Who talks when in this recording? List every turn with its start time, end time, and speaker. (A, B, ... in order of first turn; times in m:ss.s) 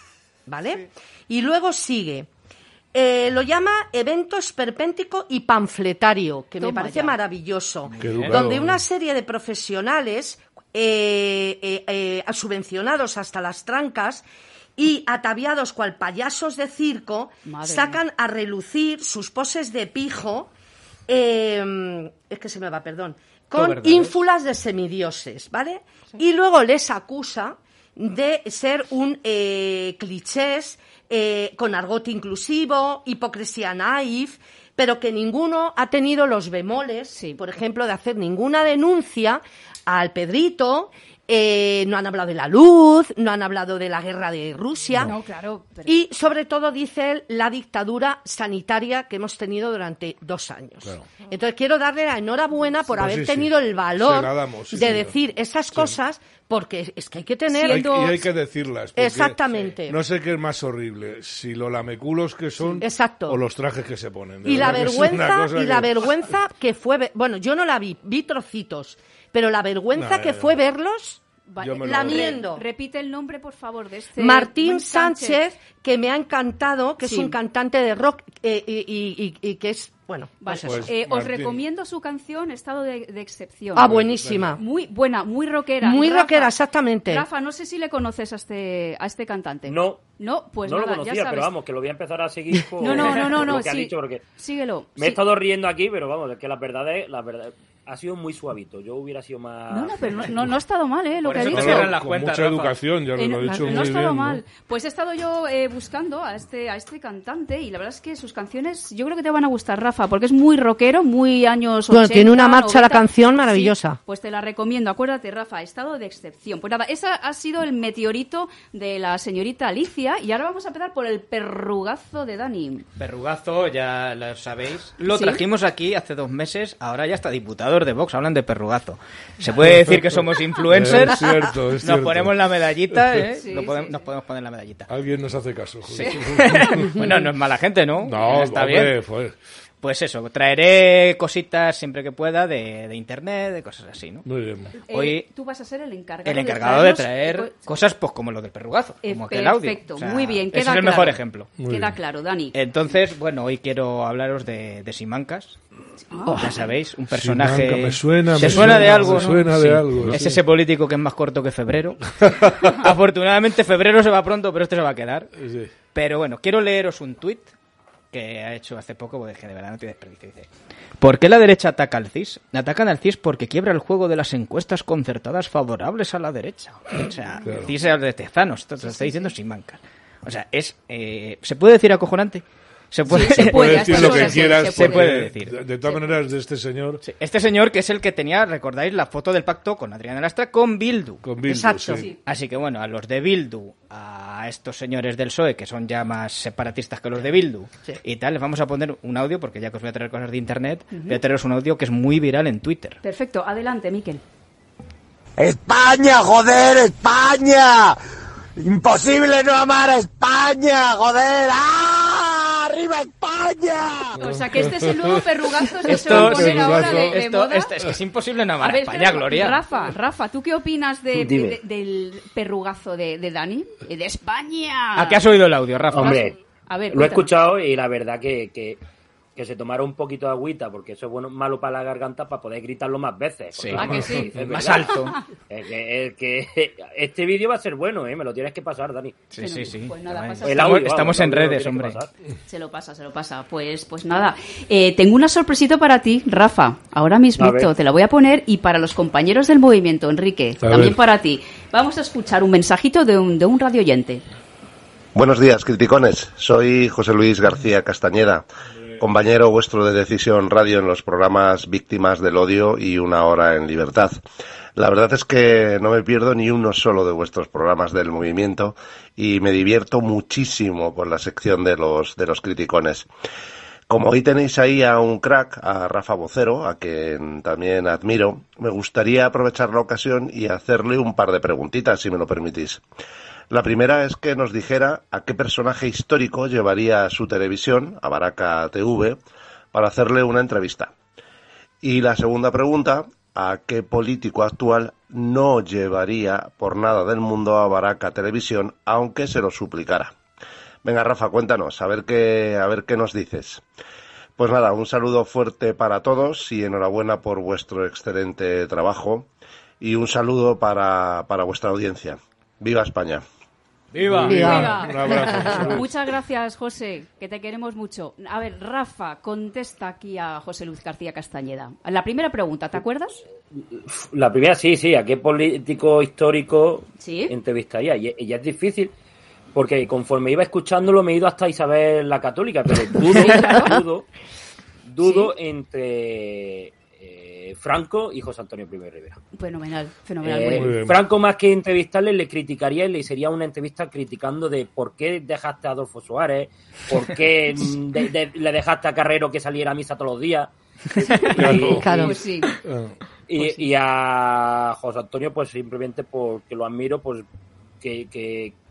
0:00.5-0:02.3 A
0:02.9-0:14.2 A
0:06.6-0:07.2 B
0:07.9-0:08.4 C
0:08.0-0:08.8 D
0:14.8-0:20.5 A
0:17.5-0:18.0 B
0:21.1-0:45.1 A
0:23.6-0:24.2 C
0:37.1-0:37.4 B
0:45.0-0:46.0 B
0:45.8-0:58.2 A
0:50.8-0:51.2 D
0:52.9-0:55.2 D
0:55.7-0:56.0 D
0:57.5-0:58.2 B
0:57.6-1:06.3 D
0:59.0-1:00.0 A
1:02.8-1:03.4 A
1:04.4-1:11.2 A
1:10.0-1:10.6 D
1:11.5-1:15.4 B
1:11.6-1:12.4 D
1:11.8-1:12.6 A
1:14.2-1:20.9 A
1:17.0-1:17.4 B
1:20.4-1:23.9 B
1:20.6-1:21.6 D
1:23.8-1:24.6 A
1:23.8-1:24.6 D
1:24.6-1:26.5 B
1:25.8-1:27.3 A
1:27.1-1:31.5 B
1:29.7-1:30.0 E
1:30.6-1:34.2 E
1:32.8-1:35.2 B
1:35.0-1:40.3 E
1:39.7-1:41.9 B
1:41.2-1:42.8 C
1:41.4-1:44.4 D
1:43.2-2:02.9 B
1:43.5-1:43.8 A
1:51.9-1:54.0 A
2:03.0-2:14.9 C
2:05.1-2:05.4 B
2:09.5-2:13.2 D
2:13.4-2:14.1 B
2:14.9-2:17.0 D
2:15.9-2:19.0 C
2:18.0-2:19.4 D
2:19.8-2:24.3 C
2:24.3-2:24.8 D
2:24.8-2:27.7 B
2:24.9-2:25.2 C
2:26.2-2:31.5 C
2:29.0-2:32.6 B
2:31.6-2:32.0 D
2:32.5-2:35.6 C
2:36.1-2:36.4 B
2:36.3-2:45.3 C
2:37.1-2:40.4 D
2:42.2-2:42.5 D
2:45.4-2:45.7 D
2:45.9-2:47.5 C
2:48.1-2:50.5 C
2:51.0-3:05.6 C
2:57.4-2:57.7 B
2:57.4-2:57.7 D
2:58.8-2:59.3 B
3:03.1-3:05.1 B
3:03.1-3:07.0 D
3:07.0-3:11.6 C
3:11.2-3:12.1 D
3:11.5-3:12.1 A
3:12.1-3:23.0 C
3:20.9-3:21.2 B
3:23.0-3:24.2 B
3:25.4-3:28.0 F
3:28.6-3:34.1 F
3:34.2-3:37.7 B
3:34.2-3:35.2 D
3:35.9-3:39.6 C
3:35.9-3:37.2 D
3:38.6-3:45.2 B
3:41.2-3:41.6 E
3:45.0-3:46.3 C
3:45.9-3:46.4 E
3:45.9-3:47.3 B
3:46.9-3:48.8 E
3:49.4-3:59.2 E
3:53.6-3:55.2 C
3:53.7-3:54.3 B
3:59.3-4:02.0 C
3:59.4-4:00.9 B
4:00.4-4:02.1 E
4:02.5-4:14.2 B
4:07.4-4:07.7 E
4:10.6-4:11.0 D
4:15.2-4:18.5 G
4:19.0-4:24.2 G
4:24.8-4:33.1 G
4:33.9-4:42.8 G
4:43.5-4:49.2 G
4:49.7-4:50.9 G
4:51.8-5:00.2 G
5:00.8-5:03.6 G
5:04.4-5:09.3 G
5:09.8-5:13.2 G
5:13.9-5:14.6 C
5:14.0-5:15.9 D
5:14.2-5:15.8 A
5:14.3-5:23.2 B
5:23.6-5:28.9 E
5:27.0-5:27.3 B
5:29.5-5:34.1 E
5:33.1-5:33.8 B
5:34.9-5:39.2 E
5:35.0-5:35.3 B
5:39.4-5:40.7 B
5:40.2-5:52.1 E
5:40.5-5:41.0 D
5:51.2-5:52.1 D
5:51.5-5:52.2 A
5:52.0-5:52.5 B
5:52.6-5:52.9 D
5:53.3-5:57.2 E
5:57.8-5:58.6 E